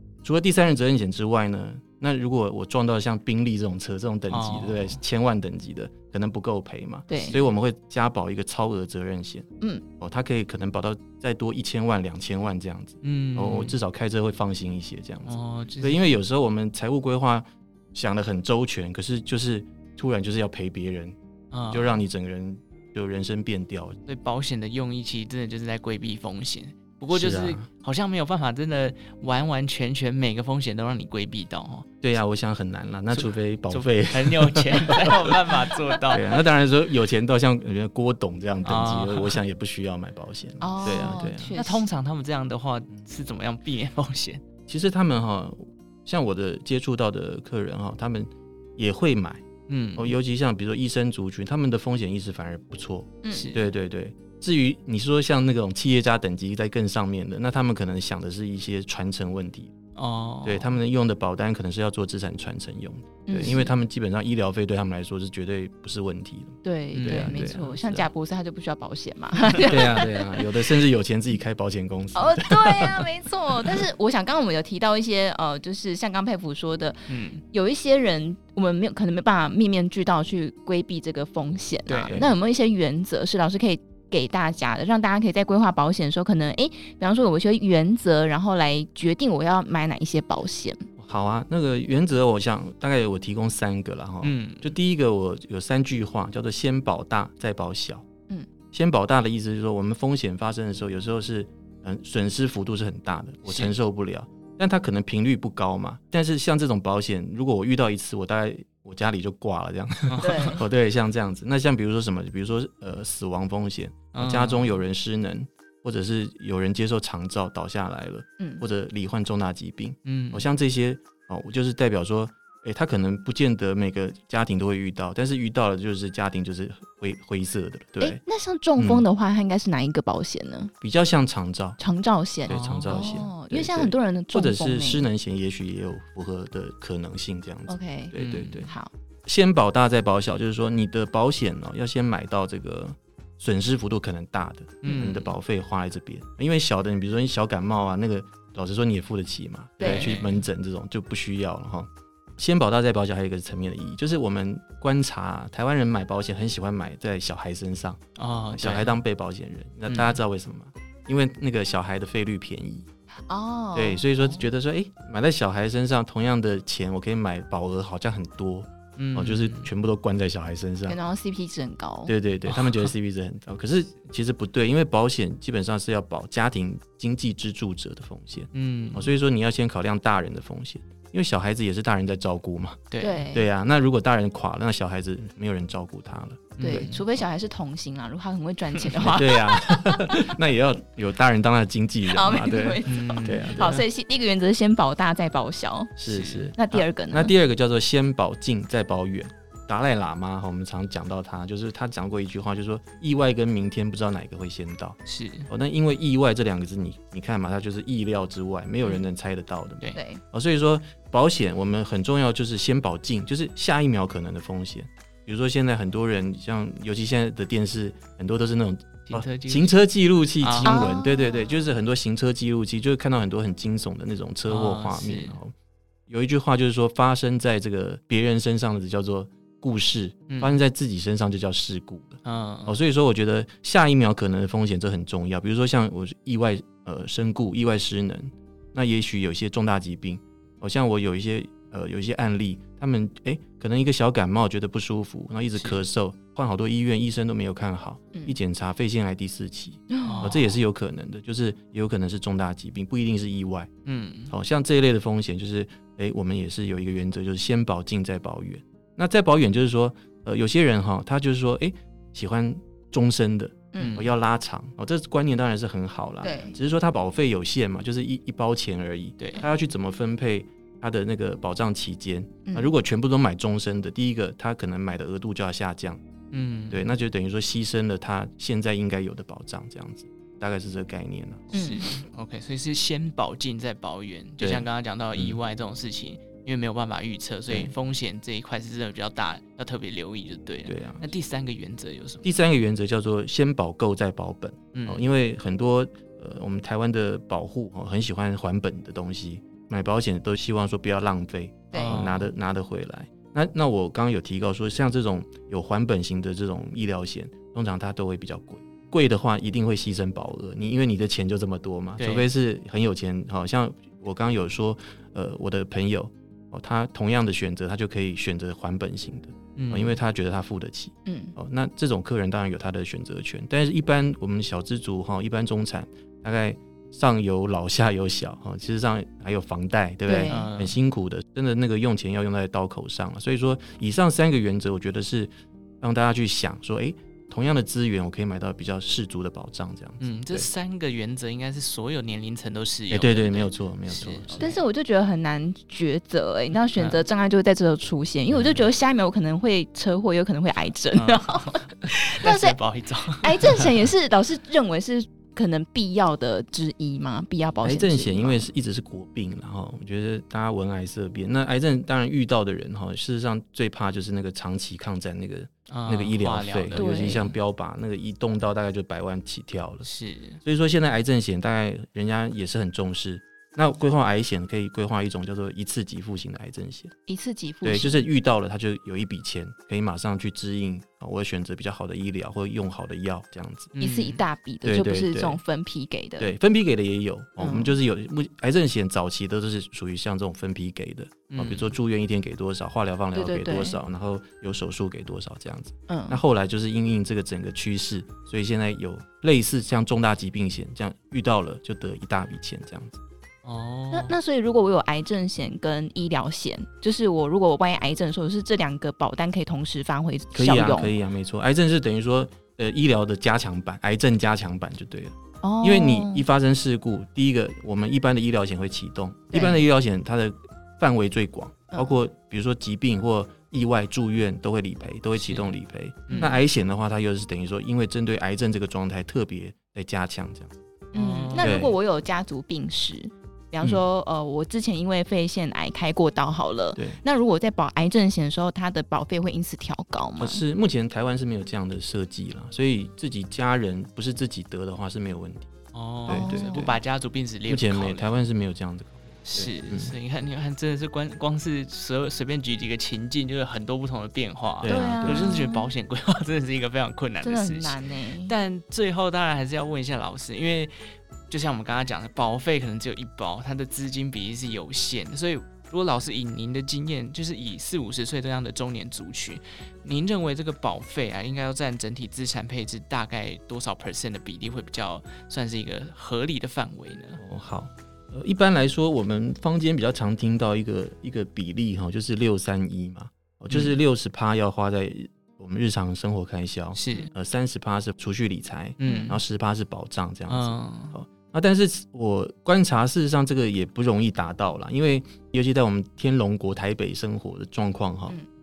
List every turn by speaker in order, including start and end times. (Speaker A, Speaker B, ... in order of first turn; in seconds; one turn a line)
Speaker A: 0.2-9.5
Speaker B: 4.3-5.0
Speaker C: 7.1-7.4
Speaker B: 7.2-7.5
Speaker A: 10.0-21.2
Speaker B: 13.0-13.8
Speaker B: 15.3-16.0
Speaker B: 21.5-22.0
Speaker A: 21.7-24.0
Speaker B: 24.1-31.9
Speaker A: 27.1-27.6
Speaker A: 32.0-41.6
Speaker B: 33.1-36.3
Speaker B: 38.6-39.4
Speaker C: 40.6-41.8
Speaker B: 40.8-44.4
Speaker A: 44.7-59.8
Speaker B: 49.7-50.1
Speaker B: 53.3-53.7
Speaker B: 60.0-60.8
Speaker A: 60.5-68.1
Speaker C: 63.3-63.7
Speaker C: 66.6-70.5
Speaker B: 67.0-67.7
Speaker A: 69.6-73.1
Speaker C: 72.1-77.0
Speaker B: 77.1-77.4
Speaker C: 77.5-90.9
Speaker B: 81.9-82.2
Speaker A: 91.0-98.1
Speaker B: 94.2-94.7
Speaker A: 98.7-128.2
Speaker B: 103.5-103.7
Speaker B: 110.1-110.6
Speaker C: 110.2-110.6
Speaker B: 114.1-114.7
Speaker C: 118.4-118.6
Speaker B: 120.1-120.5
Speaker C: 128.0-130.7
Speaker A: 128.8-129.0
Speaker A: 130.8-131.8
Speaker C: 131.8-135.1
Speaker A: 132.5-138.7
Speaker B: 132.5-133.2
Speaker C: 137.7-138.1
Speaker B: 138.1-138.7
Speaker A: 139.2-158.0
Speaker B: 144.8-145.2
Speaker C: 149.8-150.1
Speaker B: 149.8-150.4
Speaker B: 158.2-159.0
Speaker A: 158.5-162.9
Speaker B: 159.9-160.2
Speaker C: 163.3-164.0
Speaker A: 163.8-171.0
Speaker B: 169.0-169.7
Speaker C: 170.9-172.1
Speaker A: 172.1-186.9
Speaker B: 172.5-172.8
Speaker B: 178.5-179.1
Speaker B: 182.9-183.2
Speaker C: 183.0-183.5
Speaker B: 186.6-186.9
Speaker C: 186.6-190.3
Speaker A: 189.0-193.8
Speaker C: 192.1-196.0
Speaker B: 192.9-193.8
Speaker A: 196.0-225.5
Speaker B: 196.0-196.5
Speaker C: 196.6-197.3
Speaker B: 205.1-205.5
Speaker C: 209.9-210.2
Speaker B: 219.1-219.7
Speaker B: 220.4-220.9
Speaker C: 220.6-221.5
Speaker B: 224.5-225.4
Speaker A: 226.1-253.7
Speaker B: 230.3-230.6
Speaker B: 232.2-232.8
Speaker C: 249.9-250.3
Speaker B: 250.0-250.6
Speaker B: 253.9-254.3
Speaker A: 254.3-276.0
Speaker B: 263.8-264.1
Speaker C: 266.2-266.5
Speaker B: 269.2-269.5
Speaker C: 272.5-272.7
Speaker B: 276.3-276.8
Speaker A: 276.7-281.5
Speaker B: 281.5-292.2
Speaker C: 281.5-281.9
Speaker A: 284.4-285.4
Speaker A: 290.6-291.1
Speaker A: 292.2-340.5
Speaker B: 294.7-295.0
Speaker C: 301.7-302.0
Speaker B: 301.8-302.3
Speaker B: 312.0-312.2
Speaker B: 319.6-319.9
Speaker C: 321.1-321.3
Speaker C: 330.1-330.5
Speaker B: 330.3-330.8
Speaker B: 340.0-344.6
Speaker A: 342.9-344.4
Speaker C: 344.4-352.6
Speaker B: 346.8-347.0
Speaker B: 350.9-353.9
Speaker C: 353.2-358.5
Speaker A: 357.6-369.9
Speaker B: 365.7-367.3
Speaker C: 366.7-367.2
Speaker B: 369.9-370.4
Speaker A: 370.4-376.9
Speaker C: 377.1-378.1
Speaker A: 377.6-383.7
Speaker B: 383.8-384.2
Speaker C: 383.8-386.3
Speaker A: 384.6-385.4
Speaker A: 386.2-403.0
Speaker C: 387.4-387.7
Speaker B: 391.3-391.7
Speaker C: 393.1-393.8
Speaker C: 395.9-396.2
Speaker B: 403.4-404.1
Speaker C: 403.9-410.9
Speaker A: 410.3-430.5
Speaker C: 415.4-416.2
Speaker C: 419.3-419.6
Speaker C: 421.7-422.0
Speaker B: 425.2-425.5
Speaker B: 426.1-426.4
Speaker B: 430.9-431.6
Speaker C: 430.9-440.4
Speaker A: 431.4-431.8
Speaker A: 440.2-445.5
Speaker B: 445.7-448.1
Speaker A: 446.1-446.8
Speaker C: 446.1-446.7
Speaker A: 447.5-449.9
Speaker B: 449.2-460.7
Speaker A: 454.6-455.4
Speaker C: 454.7-455.7
Speaker C: 457.2-458.3
Speaker B: 461.3-477.2
Speaker A: 477.2-498.1
Speaker B: 483.5-483.8
Speaker B: 486.8-487.1
Speaker B: 488.8-489.2
Speaker C: 488.9-489.1
Speaker B: 490.3-490.9